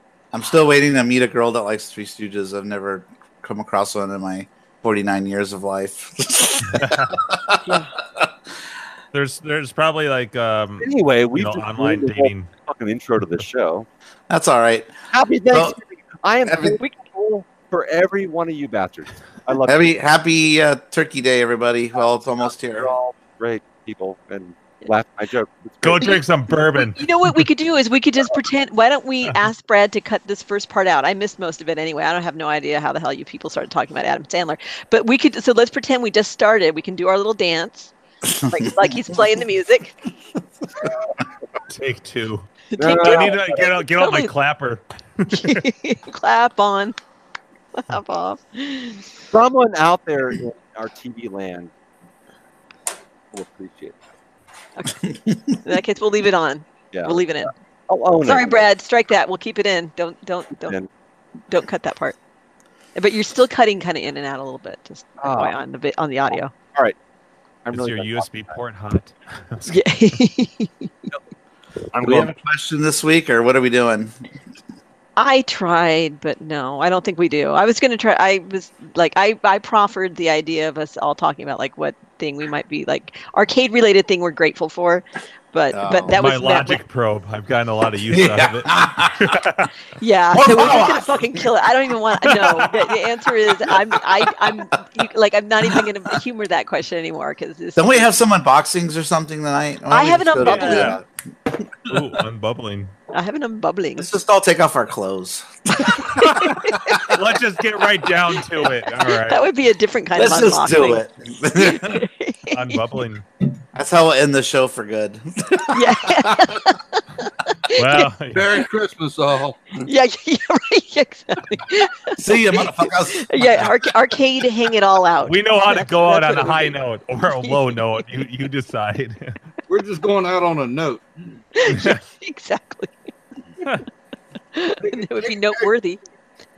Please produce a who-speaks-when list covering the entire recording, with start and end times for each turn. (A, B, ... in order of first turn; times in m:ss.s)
0:00.3-0:07.6 A
0:06.7-0:07.1 B
0:07.6-0:07.9 C
0:09.1-0:12.5 B
0:10.8-0:13.9 D
0:14.3-0:15.0 A
0:15.1-0:19.8 D
0:15.5-0:15.8 A
0:16.4-0:16.8 A
0:19.6-0:23.0 A
0:22.6-0:26.2 D
0:25.8-0:27.4 B
0:26.8-0:37.9 C
0:38.3-0:38.9 A
0:38.4-0:40.0 C
0:41.7-0:45.6 B
0:42.7-0:44.3 C
0:42.8-0:43.7 D
0:45.3-0:47.0 C
0:47.8-0:49.0 C
0:49.3-0:51.7 D
0:53.3-0:54.0 D
0:54.8-0:55.0 C
0:55.1-0:55.6 A
0:55.6-0:57.5 C
0:56.9-0:58.6 D
0:58.2-1:00.8 C
1:01.5-1:02.2 C
1:03.0-1:06.5 C
1:05.2-1:05.6 D
1:07.7-1:08.6 D
1:07.7-1:09.8 B
1:09.7-1:10.9 C
1:11.9-1:12.3 D
1:12.0-1:14.2 A
1:15.2-1:26.8 C
1:25.7-1:26.2 A
1:26.1-1:29.7 B
1:28.1-1:29.4 A
1:30.0-1:38.1 C
1:30.3-1:31.4 A
1:32.3-1:32.7 B
1:37.8-1:41.0 A
1:39.9-1:41.0 C
1:40.4-1:41.0 B
1:41.9-1:42.9 B
1:43.1-1:44.1 C
1:44.0-1:47.1 A
1:46.2-1:46.6 B
1:46.4-1:46.9 C
1:47.1-1:49.5 B
1:49.1-1:51.0 C
1:50.2-1:52.0 A
1:51.6-1:52.8 C
1:52.5-1:53.2 B
1:53.7-1:56.6 A
1:55.7-1:58.1 C
1:57.8-1:58.6 B
1:58.3-1:59.6 E
1:59.8-2:06.8 C
2:02.2-2:03.6 A
2:05.2-2:09.4 B
2:07.4-2:07.8 C
2:09.7-2:11.0 E
2:11.6-2:13.0 C
2:11.7-2:12.0 B
2:14.5-2:16.0 C
2:15.2-2:15.7 E